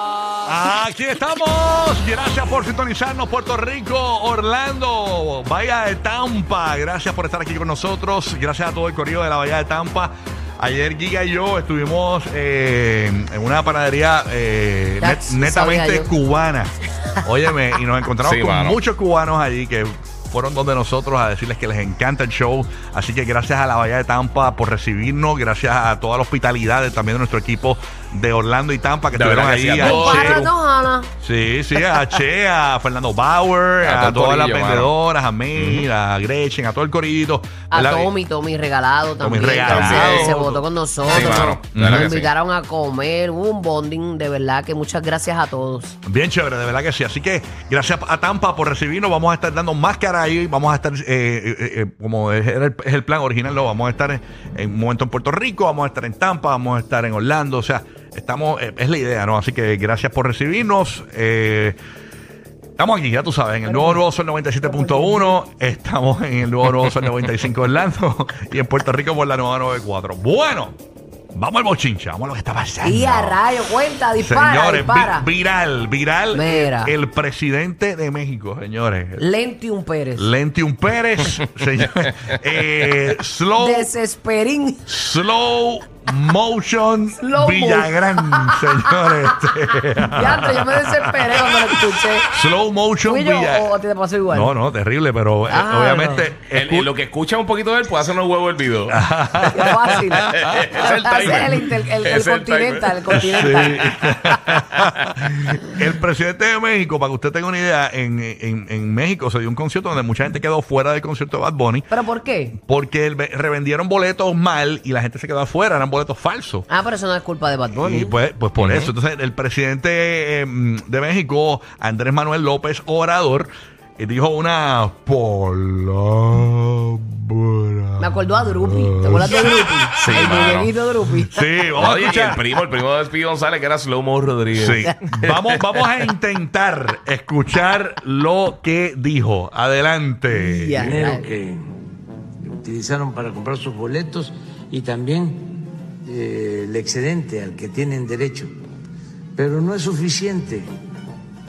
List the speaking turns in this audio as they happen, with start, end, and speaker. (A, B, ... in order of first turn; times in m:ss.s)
0:00.4-0:30.4 A
0:15.0-0:16.1 B
0:18.2-0:18.8 C
0:29.1-0:30.5 C
0:29.8-0:31.1 B
0:31.2-0:38.1 A
0:33.8-0:34.9 C
0:35.5-0:35.8 C
0:37.7-0:46.0 B
0:39.2-0:40.6 A
0:39.6-0:40.5 C
0:41.1-0:42.3 C
0:41.3-0:42.1 A
0:46.0-1:01.8 A
1:02.8-1:10.8 A
1:03.6-1:04.0 B
1:04.6-1:05.3 B
1:11.3-1:13.4 A
1:12.8-1:15.3 B
1:14.2-1:19.3 A
1:16.3-1:16.9 B
1:19.2-1:20.3 B
1:20.2-1:23.9 A
1:23.6-1:24.8 B
1:24.8-1:31.6 A
1:27.2-1:32.3 B
1:32.3-1:33.7 A
1:33.0-1:34.6 B
1:34.3-1:36.9 A
1:35.5-1:36.3 B
1:36.5-1:45.2 C
1:38.9-1:40.6 A
1:39.4-1:43.9 B
1:41.2-1:41.6 A
1:43.1-1:51.9 A
1:51.9-1:52.6 B
1:52.6-1:56.7 A
1:56.7-1:58.2 B
1:57.7-2:09.6 A
1:58.6-1:58.9 C
2:08.0-2:11.5 B
2:10.0-2:10.7 C
2:11.3-2:12.4 A
2:11.8-2:16.0 C
2:14.5-2:21.0 A
2:20.3-2:21.3 B
2:20.8-2:21.6 D
2:22.4-2:28.5 D
2:29.4-2:30.7 D